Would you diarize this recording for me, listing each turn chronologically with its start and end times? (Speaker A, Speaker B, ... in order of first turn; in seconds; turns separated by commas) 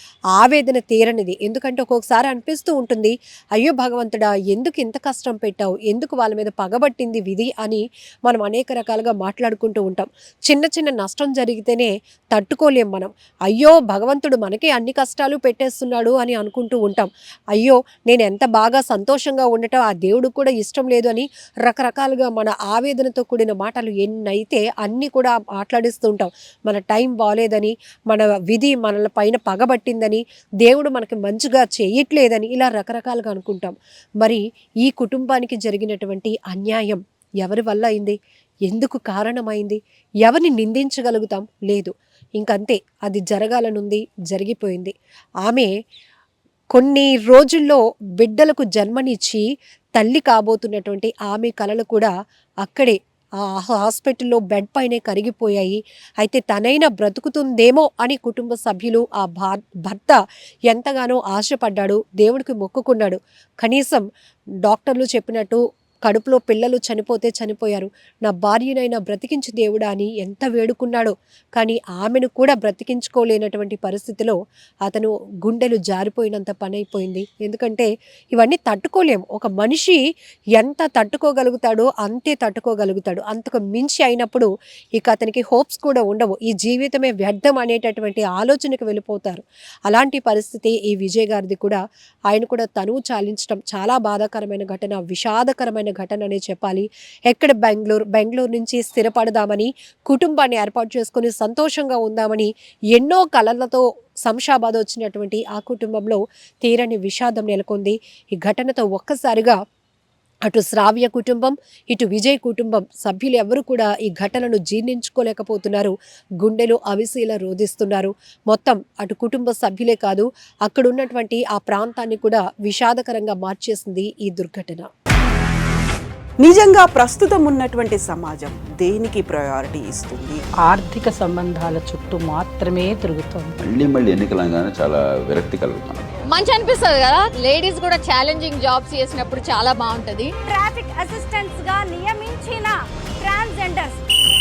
Speaker A: 0.3-44.9, Speaker A: 45.4-45.7, Speaker A: 46.7-49.4, Speaker A: 50.0-52.1, Speaker A: 52.6-64.0, Speaker A: 64.7-80.0, Speaker A: 80.6-91.8, Speaker A: 92.3-109.6, Speaker A: 110.5-124.9, Speaker B: 126.4-130.4, Speaker C: 130.7-133.5, Speaker D: 133.8-135.8, Speaker E: 136.3-140.3, Speaker F: 140.4-144.0